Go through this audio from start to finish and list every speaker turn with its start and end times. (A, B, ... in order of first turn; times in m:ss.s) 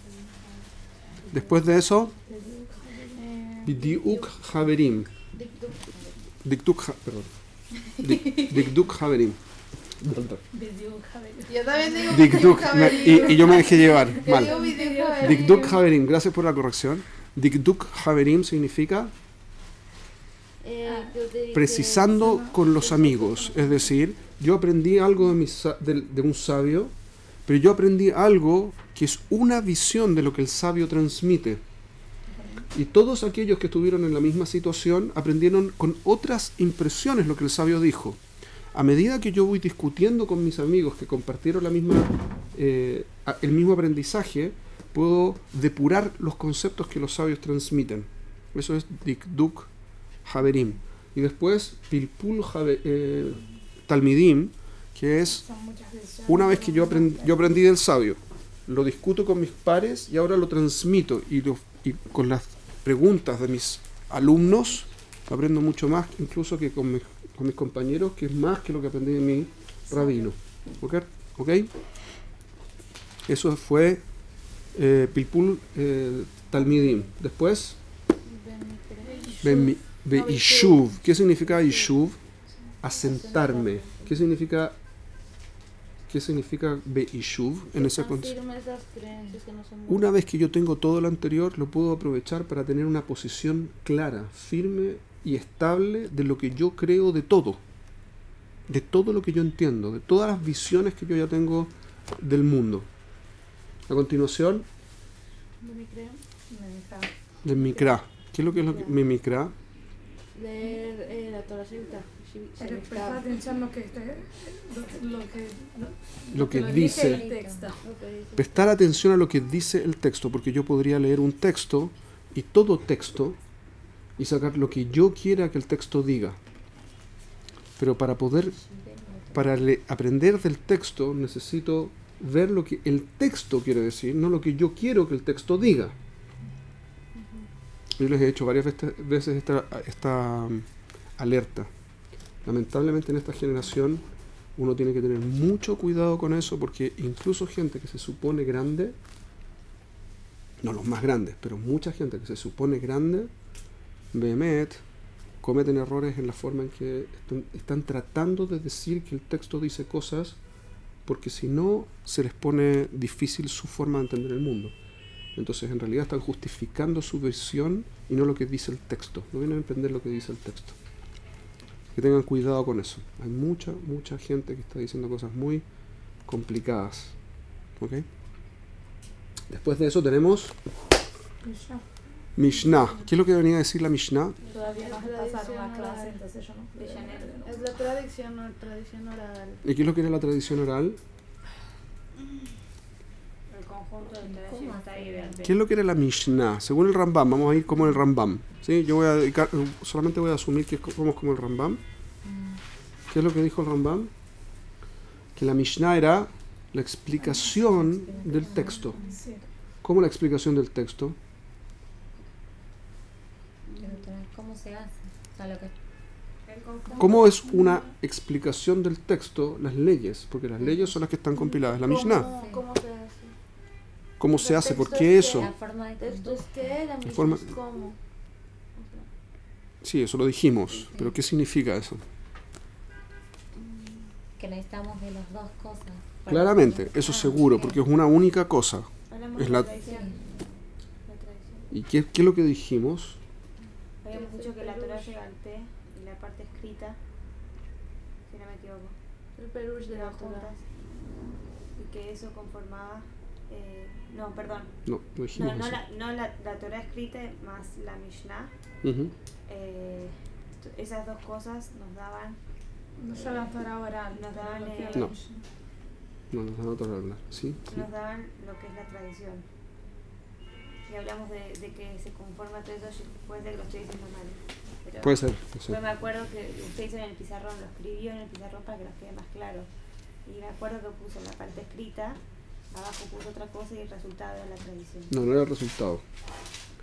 0:01.3-0:02.1 A
0:02.3-0:03.2 B
0:03.2-0:04.8 C
0:03.6-0:05.1 A
0:05.3-0:06.0 C
0:06.4-0:07.3 A
0:08.0-0:08.6 C
0:08.0-0:09.4 A
0:10.0-0:10.4 A
0:10.5-0:15.7 B
0:11.5-0:15.8 C
0:12.1-0:14.6 A
0:15.2-0:19.1 A
0:20.6-0:22.4 C
0:20.8-0:21.2 B
0:21.5-0:26.9 A
0:22.2-0:23.9 B
0:27.4-0:31.6 A
0:32.7-0:38.2 A
0:38.7-0:49.7 A
0:50.2-0:55.4 A
0:55.3-0:57.6 B
0:56.3-1:11.7 A
1:09.9-1:10.3 C
1:13.3-1:14.0 A
1:14.7-1:17.8 A
1:16.6-1:16.9 C
1:18.2-1:21.9 C
1:19.2-1:19.5 B
1:19.4-1:22.2 A
1:22.8-1:24.8 A
1:22.8-1:24.3 C
1:26.1-1:28.4 A
1:27.7-1:30.1 C
1:29.9-1:37.6 A
1:38.7-1:42.9 A
1:43.9-1:44.6 A
1:45.6-1:46.2 C
1:46.5-1:47.1 B
1:47.4-1:49.5 A
1:50.3-1:53.3 C
1:52.6-1:57.8 B
1:56.3-1:57.2 A
1:56.6-1:57.8 D
1:57.8-1:58.8 C
1:58.4-2:03.4 A
2:04.2-2:06.4 A
2:07.8-2:08.6 A
2:08.5-2:09.5 D
2:09.3-2:16.0 A
2:17.2-2:17.4 C
2:18.0-2:21.7 A
2:22.4-2:24.0 A
2:24.6-2:29.0 A
2:30.6-2:33.3 A
2:34.1-2:34.8 A
2:35.4-2:40.4 A
2:41.0-2:44.7 A
2:45.4-2:50.7 A
2:51.9-2:55.6 A
2:56.2-2:57.1 A
2:57.8-2:58.1 A
2:59.5-3:00.6 A
3:01.4-3:01.8 B
3:02.4-3:04.4 A
3:04.5-3:06.2 C
3:04.6-3:07.6 B
3:06.7-3:07.4 E
3:07.0-3:09.6 C
3:09.6-3:11.0 A
3:13.5-3:15.6 E
3:14.2-3:15.5 D
3:15.4-3:21.8 A
3:22.2-3:22.6 D
3:23.1-3:24.1 A
3:25.4-3:29.0 A
3:27.2-3:29.2 D
3:28.8-3:29.4 B
3:29.8-3:31.2 A
3:33.7-3:34.1 C
3:33.8-3:35.7 D
3:36.4-3:37.4 E
3:37.0-3:42.3 A
3:37.5-3:37.8 B
3:40.6-3:41.0 D
3:41.3-3:43.3 C
3:42.1-3:42.6 D
3:44.2-3:45.5 A
3:44.3-3:48.0 C
3:45.2-3:46.8 D
3:47.0-3:47.5 A
3:48.7-3:49.1 C
3:49.8-3:52.0 A
3:50.8-3:51.2 D
3:53.6-3:54.1 C
3:54.4-3:57.8 D
3:56.2-3:59.7 A
3:59.1-4:00.1 E
3:59.8-4:00.3 D
4:01.0-4:01.7 E
4:01.7-4:03.2 A
4:04.0-4:07.0 E
4:04.1-4:05.1 C
4:08.3-4:09.0 E
4:09.4-4:10.5 C
4:09.8-4:10.6 E
4:11.8-4:14.7 E
4:14.8-4:15.8 A
4:15.3-4:18.5 E
4:18.8-4:19.1 A
4:19.5-4:22.4 E
4:23.0-4:25.4 B
4:23.1-4:23.5 E
4:24.1-4:25.2 E
4:26.3-4:27.8 A
4:27.7-4:29.4 E
4:30.9-4:39.7 E
4:35.0-4:35.8 A
4:40.2-4:42.2 E
4:42.7-4:45.2 E
4:45.1-4:46.0 A